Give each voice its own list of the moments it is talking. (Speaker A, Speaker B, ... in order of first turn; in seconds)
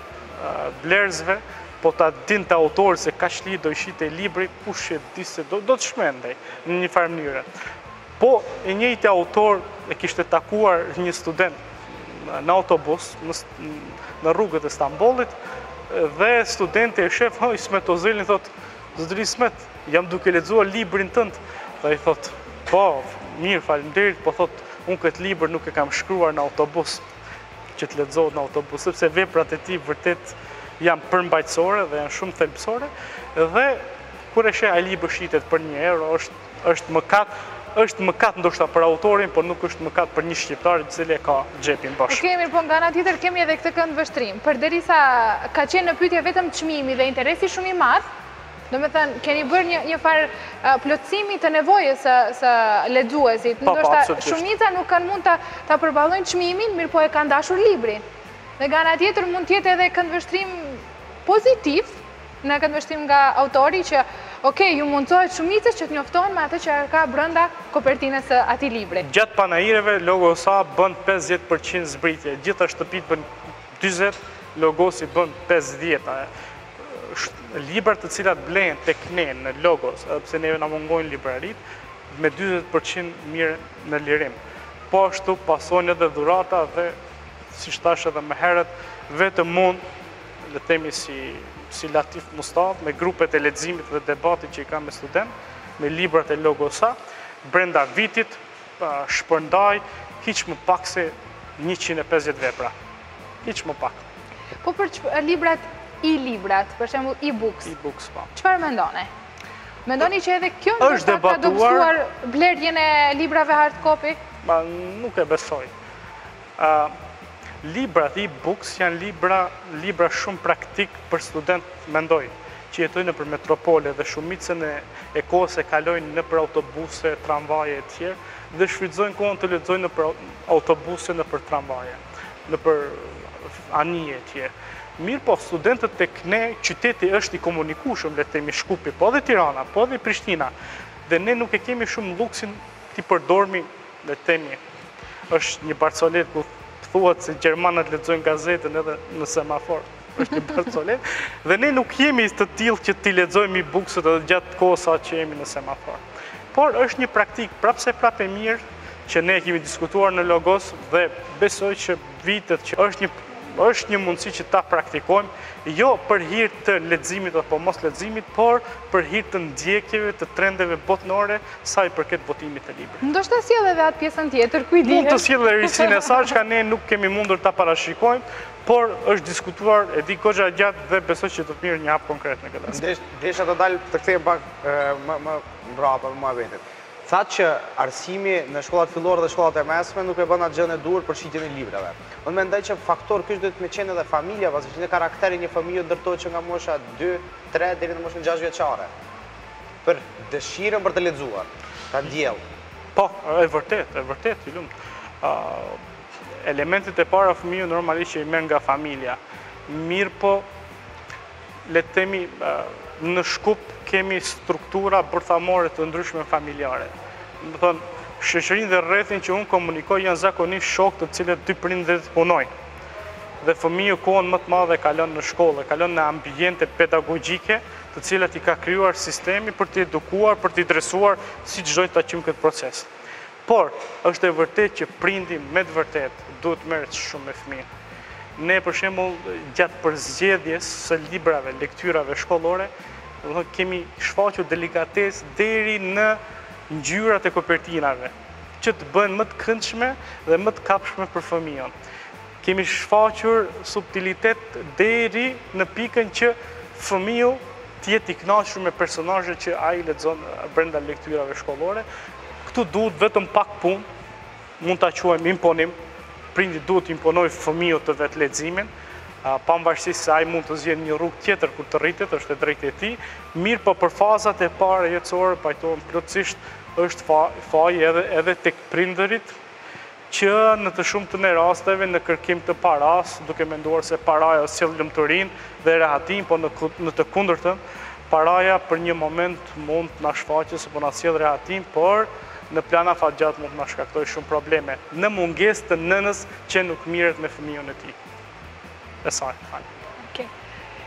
Speaker A: 0.4-7.5, 8.2-11.6, 12.1-15.3, 15.9-27.0, 27.8-42.2, 53.6-54.4, 69.0-73.3, 73.8-76.3, 76.8-81.6, 82.1-84.4, 84.9-87.0, 87.5-89.8, 90.5-102.7, 103.4-104.0, 107.7-108.3, 110.8-111.9, 114.4-115.7, 116.6-116.9, 117.6-140.5, 141.1-144.6, 145.3-156.0, 156.5-173.0, 174.9-182.8, 202.9-205.8, 206.4-210.5, 211.7-222.5, 223.4-232.9, 233.5-237.7, 238.4-242.7, 243.2-251.7, 252.4-261.9, 262.5-263.9, 264.6-265.8, 266.3-268.7, 269.2-279.4, 280.1-298.0, 299.0-299.7
Speaker B: 42.1-48.0, 48.7-58.0, 58.6-69.1, 104.6-107.7, 108.3-109.1, 109.9-114.2, 173.0-175.8
Speaker C: 182.7-198.9, 199.8-202.4